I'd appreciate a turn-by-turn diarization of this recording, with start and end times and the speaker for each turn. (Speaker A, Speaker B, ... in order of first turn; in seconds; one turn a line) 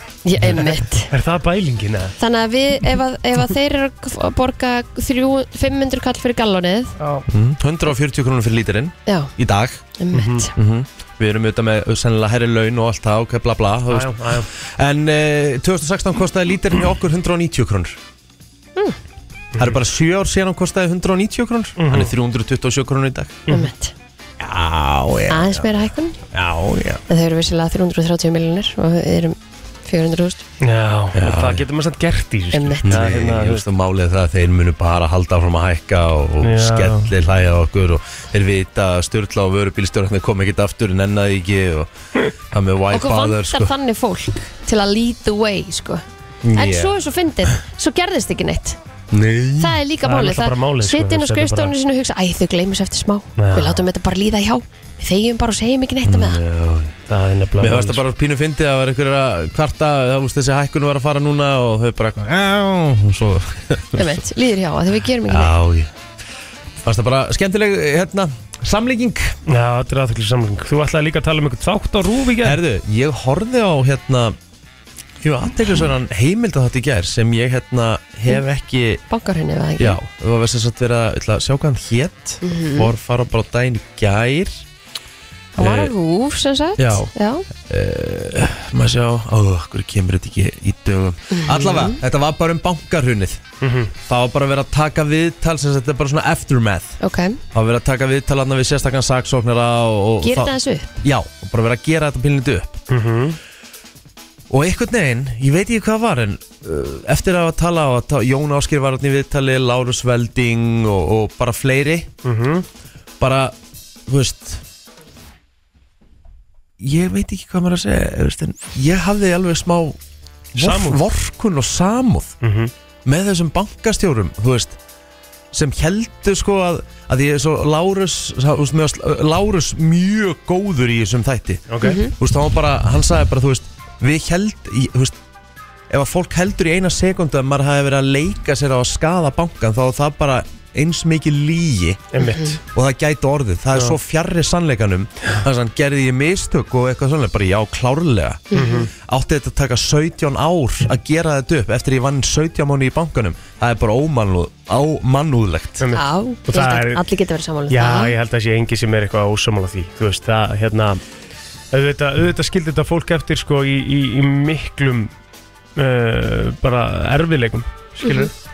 Speaker A: 0.2-1.1
Speaker B: 0.5-2.1
Speaker A: 2.2-6.9
Speaker B: 7.0-7.2
Speaker C: 7.3-9.8
Speaker A: 10.0-10.5
Speaker B: 10.1-10.4
Speaker C: 10.5-18.0
Speaker B: 13.9-14.5
Speaker C: 19.6-23.4
Speaker B: 21.8-22.1
Speaker A: 23.5-23.9
Speaker C: 24.4-25.7
Speaker A: 25.3-26.2
Speaker B: 26.3-27.0
Speaker A: 27.1-30.4
Speaker B: 30.6-33.6
Speaker C: 31.1-31.6
Speaker A: 32.5-33.2
Speaker C: 32.8-41.9
Speaker B: 36.4-37.1
Speaker C: 42.4-43.7
Speaker A: 42.9-46.0
Speaker C: 46.4-46.9
Speaker A: 46.5-48.8
Speaker C: 49.1-49.8
Speaker A: 49.6-56.4
Speaker B: 50.0-51.7
Speaker B: 53.4-53.8
Speaker C: 56.0-57.0
Speaker B: 57.1-58.0
Speaker C: 57.6-64.2
Speaker A: 63.9-65.5
Speaker C: 65.3-65.9
Speaker C: 66.8-69.4
Speaker B: 69.5-72.6
Speaker C: 72.4-74.4
Speaker C: 75.2-79.0
Speaker A: 79.1-80.0
Speaker C: 79.8-84.6
Speaker A: 82.4-82.9
Speaker C: 85.5-85.9
Speaker A: 85.6-87.5
Speaker C: 86.8-93.4
Speaker A: 91.3-92.0
Speaker B: 93.6-93.9
Speaker C: 94.0-97.0
Speaker A: 97.0-97.4
Speaker C: 97.5-102.8
Speaker A: 100.2-100.9
Speaker B: 102.9-103.4
Speaker C: 104.5-112.1
Speaker B: 112.2-112.7
Speaker C: 113.2-113.5
Speaker C: 114.1-114.6
Speaker C: 116.8-120.0
Speaker C: 120.5-122.3
Speaker B: 120.5-121.0
Speaker B: 122.4-122.7
Speaker C: 123.0-124.8
Speaker C: 125.5-135.2
Speaker B: 131.7-132.0
Speaker A: 131.8-132.1
Speaker C: 135.9-142.1
Speaker B: 142.1-142.6
Speaker A: 142.2-142.5
Speaker C: 142.7-155.8
Speaker A: 148.5-148.9
Speaker B: 148.5-148.9
Speaker B: 155.8-157.0
Speaker A: 155.9-158.1
Speaker B: 157.7-161.0
Speaker B: 161.7-165.1
Speaker B: 165.8-168.3
Speaker A: 168.0-168.3